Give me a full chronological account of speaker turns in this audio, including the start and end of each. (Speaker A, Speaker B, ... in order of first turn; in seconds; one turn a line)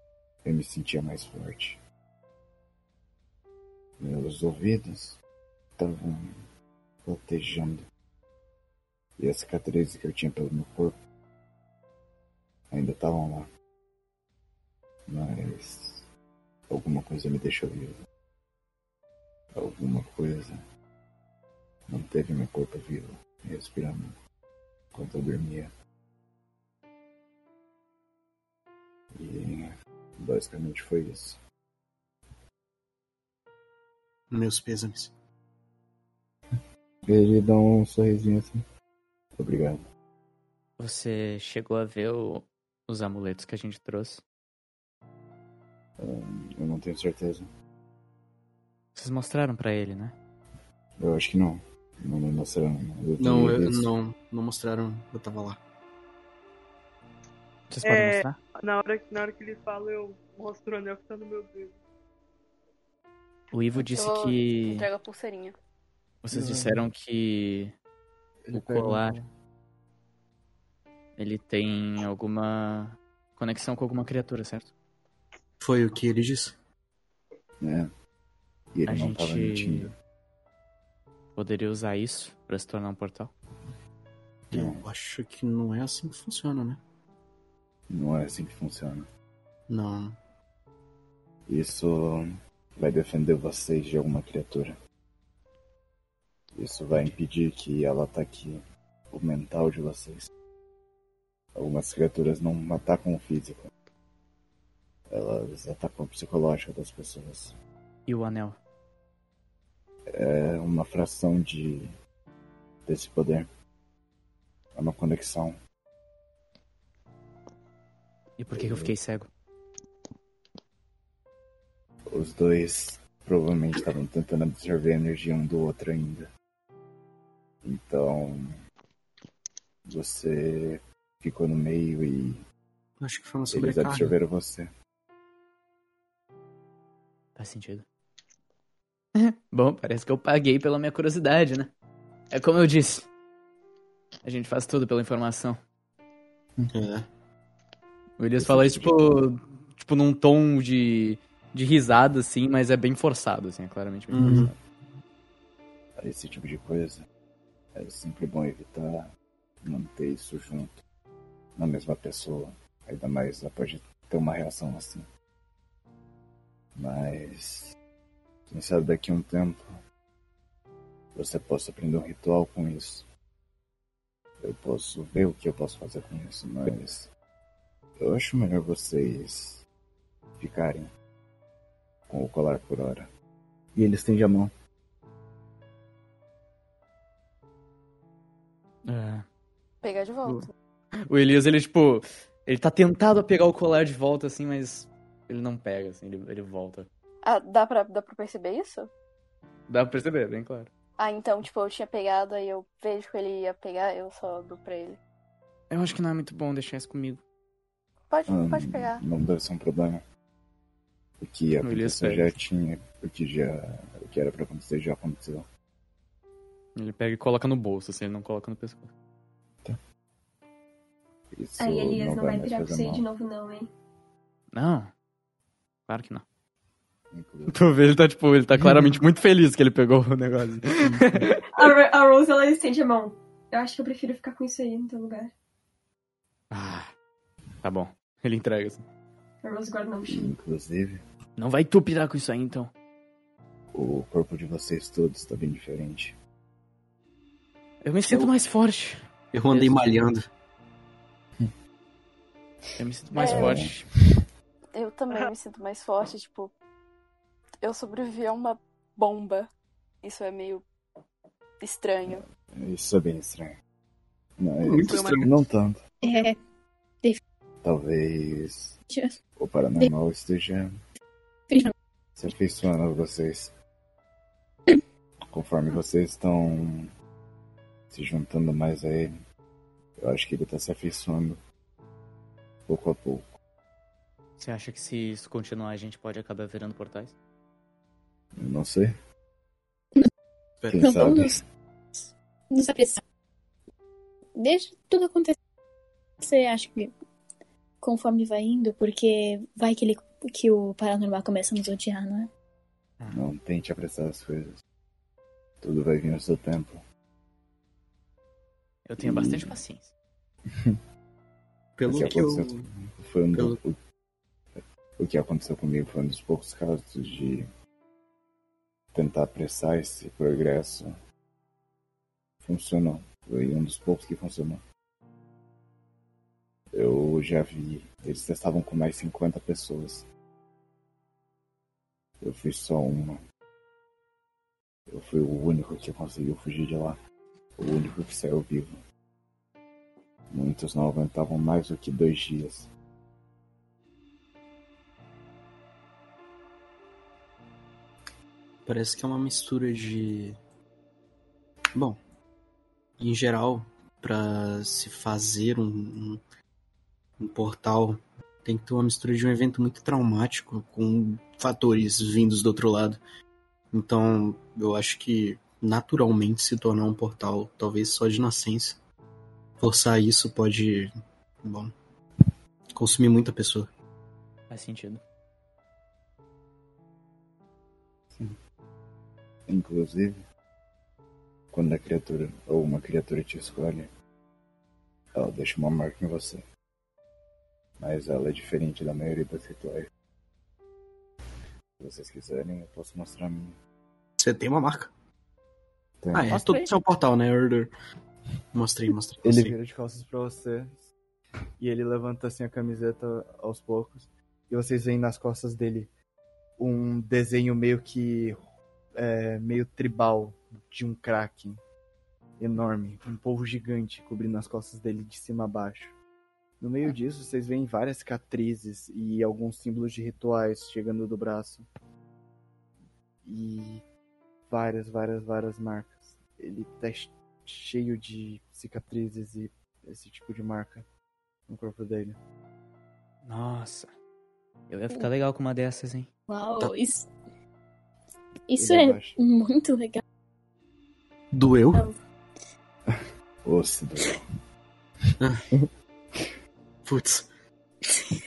Speaker A: 0.4-1.8
Speaker A: 4.0-5.2
Speaker A: 5.8-6.3
Speaker A: 7.0-7.8
Speaker A: 9.2-10.9
Speaker A: 12.7-13.5
Speaker A: 15.1-16.0
Speaker A: 16.7-17.9
Speaker A: 19.6-20.6
Speaker A: 21.9-24.1
Speaker A: 24.9-25.7
Speaker A: 29.2-31.4
Speaker B: 34.3-35.1
Speaker A: 37.1-38.6
Speaker A: 39.4-39.8
Speaker C: 40.8-44.2
Speaker A: 46.0-47.5
Speaker C: 48.9-50.1
Speaker A: 51.0-53.9
Speaker B: 53.2-55.6
Speaker C: 57.7-58.4
Speaker D: 57.8-61.8
Speaker C: 63.5-64.8
Speaker E: 63.7-65.5
Speaker C: 66.2-67.7
Speaker A: 66.3-66.8
Speaker A: 68.4-69.3
Speaker C: 68.5-69.2
Speaker C: 71.2-74.7
Speaker B: 75.6-76.5
Speaker A: 77.6-77.9
Speaker A: 78.7-79.9
Speaker C: 78.9-79.9
Speaker C: 81.3-83.3
Speaker A: 84.5-84.8
Speaker B: 84.5-86.8
Speaker A: 87.9-89.1
Speaker B: 89.7-90.2
Speaker A: 91.5-92.2
Speaker A: 92.8-94.7
Speaker A: 96.5-98.6
Speaker A: 99.1-100.3
Speaker A: 101.5-103.6
Speaker A: 105.1-107.5
Speaker C: 108.0-108.6
Speaker A: 110.1-111.9
Speaker A: 112.9-113.5
Speaker A: 114.8-115.5
Speaker C: 118.4-119.3
Speaker A: 118.5-118.9
Speaker A: 122.1-126.3
Speaker A: 127.6-128.5
Speaker A: 129.8-132.4
Speaker B: 133.0-134.2
Speaker A: 133.5-134.7
Speaker C: 137.3-137.8
Speaker C: 139.2-141.7
Speaker C: 142.3-143.1
Speaker C: 144.2-145.6
Speaker B: 146.7-147.1
Speaker C: 148.2-154.6
Speaker A: 148.4-149.1
Speaker B: 154.1-154.5
Speaker A: 154.2-154.5
Speaker A: 156.0-157.0
Speaker A: 157.7-159.1
Speaker A: 159.6-160.7
Speaker A: 161.6-165.1
Speaker A: 166.8-167.7
Speaker A: 168.5-169.7
Speaker A: 171.1-173.1
Speaker A: 174.4-177.1
Speaker A: 178.0-179.6
Speaker A: 180.4-180.9
Speaker A: 182.1-183.1
Speaker A: 183.7-184.5
Speaker C: 188.8-189.2
Speaker E: 189.8-190.5
Speaker C: 191.1-196.9
Speaker E: 197.2-198.9
Speaker C: 199.7-200.7
Speaker E: 201.0-205.0
Speaker C: 205.7-207.2
Speaker E: 208.1-209.1
Speaker A: 208.3-210.0
Speaker A: 211.2-215.4
Speaker C: 211.6-212.3
Speaker C: 216.8-218.9
Speaker A: 221.3-223.0
Speaker F: 221.6-223.7
Speaker C: 224.5-224.9
Speaker C: 225.9-226.2
Speaker A: 227.1-227.6
Speaker C: 227.5-231.7
Speaker A: 228.6-229.0
Speaker A: 230.8-231.3
Speaker F: 231.5-235.3
Speaker C: 236.5-236.9
Speaker C: 237.6-238.8
Speaker F: 239.4-240.3
Speaker A: 240.1-241.0
Speaker C: 241.4-242.7
Speaker A: 243.7-246.2
Speaker C: 247.8-250.1
Speaker B: 249.3-250.2
Speaker C: 252.8-253.9
Speaker E: 253.1-253.6
Speaker A: 253.2-253.9
Speaker E: 254.7-256.5
Speaker E: 257.6-259.5
Speaker E: 260.0-260.6
Speaker E: 261.6-262.2
Speaker A: 262.1-263.5
Speaker A: 264.4-265.8
Speaker B: 264.6-265.3
Speaker D: 264.8-265.3
Speaker G: 266.0-266.4
Speaker A: 267.6-268.7
Speaker A: 269.4-270.7
Speaker A: 272.2-273.5
Speaker A: 275.3-276.8
Speaker A: 277.9-279.1
Speaker A: 280.0-281.4
Speaker A: 282.7-283.2
Speaker C: 284.4-287.1
Speaker A: 288.4-288.9
Speaker B: 290.6-291.1
Speaker A: 290.7-291.4
Speaker G: 290.8-291.3
Speaker G: 291.9-293.0
Speaker G: 294.4-295.3
Speaker G: 296.2-296.9
Speaker G: 297.8-302.3
Speaker A: 303.1-304.5
Speaker A: 305.6-306.8
Speaker C: 308.9-309.9
Speaker A: 309.0-309.6
Speaker B: 311.8-312.6
Speaker A: 311.9-313.8
Speaker B: 313.3-313.6
Speaker A: 315.0-317.4
Speaker A: 318.9-320.9
Speaker A: 322.4-324.6
Speaker A: 326.7-330.1
Speaker A: 332.2-333.2
Speaker A: 334.9-337.0
Speaker A: 337.6-338.8
Speaker A: 340.3-342.7
Speaker B: 348.6-350.4
Speaker B: 353.0-356.2
Speaker B: 357.2-363.0
Speaker B: 363.7-368.8
Speaker B: 369.6-370.9
Speaker B: 371.4-371.7
Speaker B: 372.7-373.7
Speaker C: 374.5-375.0
Speaker A: 379.5-380.2
Speaker A: 381.5-383.9
Speaker A: 385.1-386.4
Speaker A: 387.8-389.9
Speaker A: 391.8-393.6
Speaker B: 394.2-394.9
Speaker A: 396.0-396.7
Speaker B: 396.1-397.7
Speaker B: 398.5-399.5
Speaker A: 399.2-400.9
Speaker A: 401.6-405.9
Speaker A: 406.6-408.4
Speaker A: 408.9-411.6
Speaker A: 412.4-415.9
Speaker A: 416.6-421.7
Speaker A: 423.2-423.8
Speaker A: 424.5-430.9
Speaker A: 431.5-432.2
Speaker C: 433.2-433.9
Speaker C: 434.7-436.1
Speaker G: 436.3-437.1
Speaker G: 438.5-440.0
Speaker A: 438.6-439.2
Speaker B: 441.3-441.8
Speaker A: 442.9-444.2
Speaker B: 445.2-445.4
Speaker B: 446.8-447.3